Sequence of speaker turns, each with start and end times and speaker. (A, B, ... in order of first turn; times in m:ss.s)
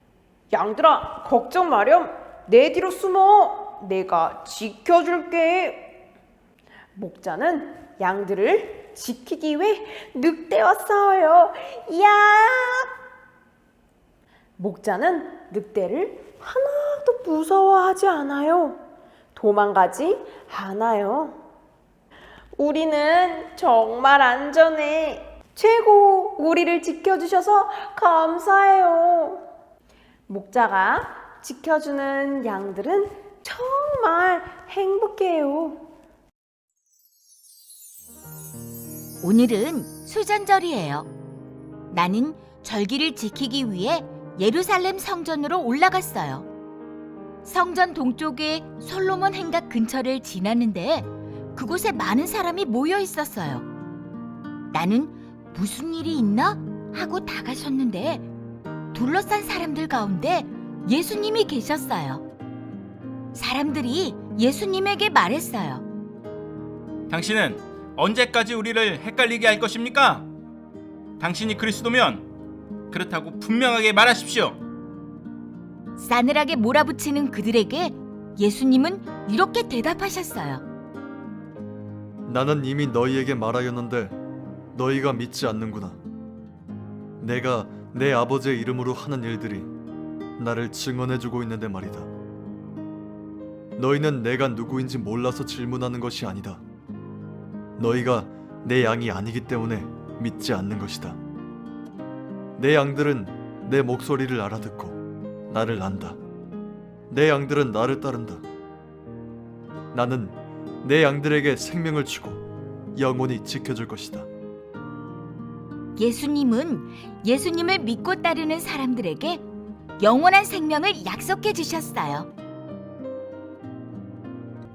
0:00.5-0:06.0 A
0:07.0-0:12.9 A
0:14.6-0:18.8 A
0:19.4-0:21.4 A
0:22.6-0:29.4 A
0:30.3-0:35.8 A
0:39.2-0:41.1 B
0:41.9-0:46.5 B
0:47.4-0:53.7 B
0:54.7-0:58.3 B
0:58.9-1:02.2 B
1:03.3-1:05.8 B
1:07.1-1:10.3 C
1:11.2-1:12.3 C
1:12.9-1:14.6 C
1:16.0-1:20.6 B
1:22.3-1:24.2 D
1:24.7-1:26.0 D
1:27.2-1:29.7 D
1:30.4-1:32.1 D
1:33.8-1:36.6 D
1:37.8-1:41.2 D
1:42.6-1:45.0 D
1:45.5-1:46.2 D
1:47.1-1:48.4 D
1:49.9-1:54.3 D
1:56.0-1:59.4 B
2:00.0-2:02.3 B